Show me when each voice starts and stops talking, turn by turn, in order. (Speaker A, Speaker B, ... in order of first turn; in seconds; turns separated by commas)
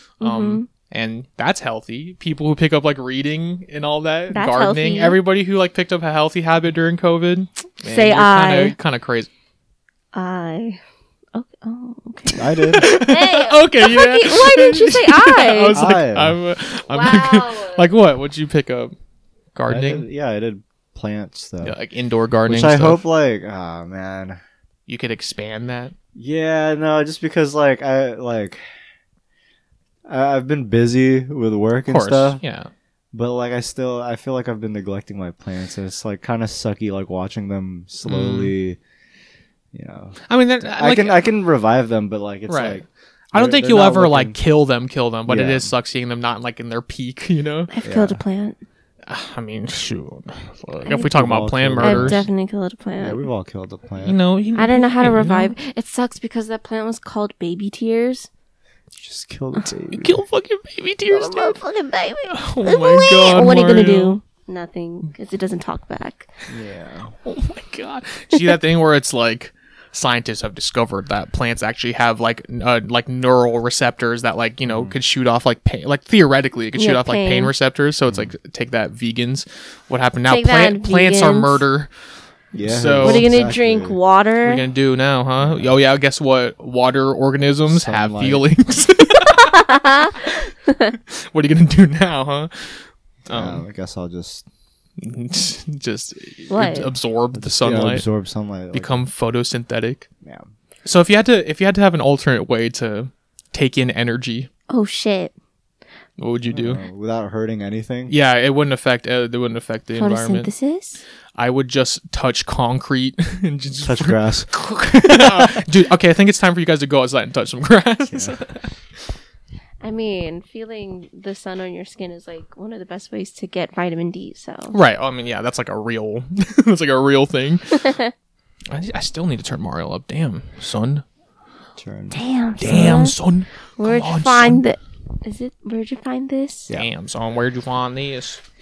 Speaker A: 0.2-0.7, Speaker B: 0.2-9.3, Speaker A: 4.3-5.2, Speaker A: 7.8-8.8, Speaker A: 10.1-10.8, Speaker A: 11.3-15.8, Speaker C: 12.3-13.1, Speaker B: 12.7-18.9, Speaker C: 15.7-16.4, Speaker A: 16.9-17.9, Speaker B: 19.6-20.1, Speaker C: 19.7-21.8, Speaker B: 21.6-23.0, Speaker C: 22.5-24.4, Speaker B: 24.9-25.9, Speaker C: 26.1-28.6, Speaker C: 30.1-32.4, Speaker B: 31.9-32.7, Speaker C: 33.1-38.8, Speaker B: 38.0-38.5, Speaker C: 39.7-40.2, Speaker B: 40.3-41.3, Speaker C: 40.7-44.4, Speaker B: 42.5-47.7, Speaker C: 45.3-45.7, Speaker A: 47.7-48.6, Speaker C: 47.8-48.2, Speaker B: 49.1-52.2, Speaker A: 50.9-51.1, Speaker C: 51.0-52.3, Speaker A: 51.8-53.2, Speaker C: 53.0-54.2, Speaker B: 54.0-55.5, Speaker A: 54.6-58.3, Speaker C: 59.0-60.2, Speaker B: 59.9-61.6, Speaker A: 61.1-66.3, Speaker B: 62.3-64.2, Speaker C: 66.5-67.2, Speaker B: 67.2-81.9, Speaker C: 74.7-75.0, Speaker A: 76.8-77.5, Speaker C: 78.1-78.3, Speaker A: 80.3-81.6, Speaker C: 82.5-84.0, Speaker B: 82.5-83.3, Speaker A: 83.0-84.6, Speaker B: 84.4-89.6, Speaker C: 85.4-85.7, Speaker C: 87.7-88.5, Speaker A: 89.3-91.0, Speaker B: 91.0-93.7, Speaker C: 93.3-94.5, Speaker B: 95.0-98.0, Speaker A: 96.5-96.9, Speaker C: 97.3-99.0, Speaker B: 98.7-100.1, Speaker C: 100.2-100.5, Speaker B: 100.8-104.5, Speaker A: 104.7-105.3, Speaker B: 106.2-106.8, Speaker C: 106.5-108.2, Speaker B: 108.1-110.5, Speaker A: 110.0-111.0, Speaker B: 111.4-118.7, Speaker C: 113.8-115.6, Speaker C: 118.1-118.4, Speaker A: 119.8-124.8, Speaker B: 124.7-128.0, Speaker A: 127.8-128.1, Speaker B: 128.7-131.0, Speaker C: 131.8-133.1, Speaker A: 132.1-133.2, Speaker B: 132.6-134.6, Speaker A: 133.8-136.7, Speaker B: 136.7-138.4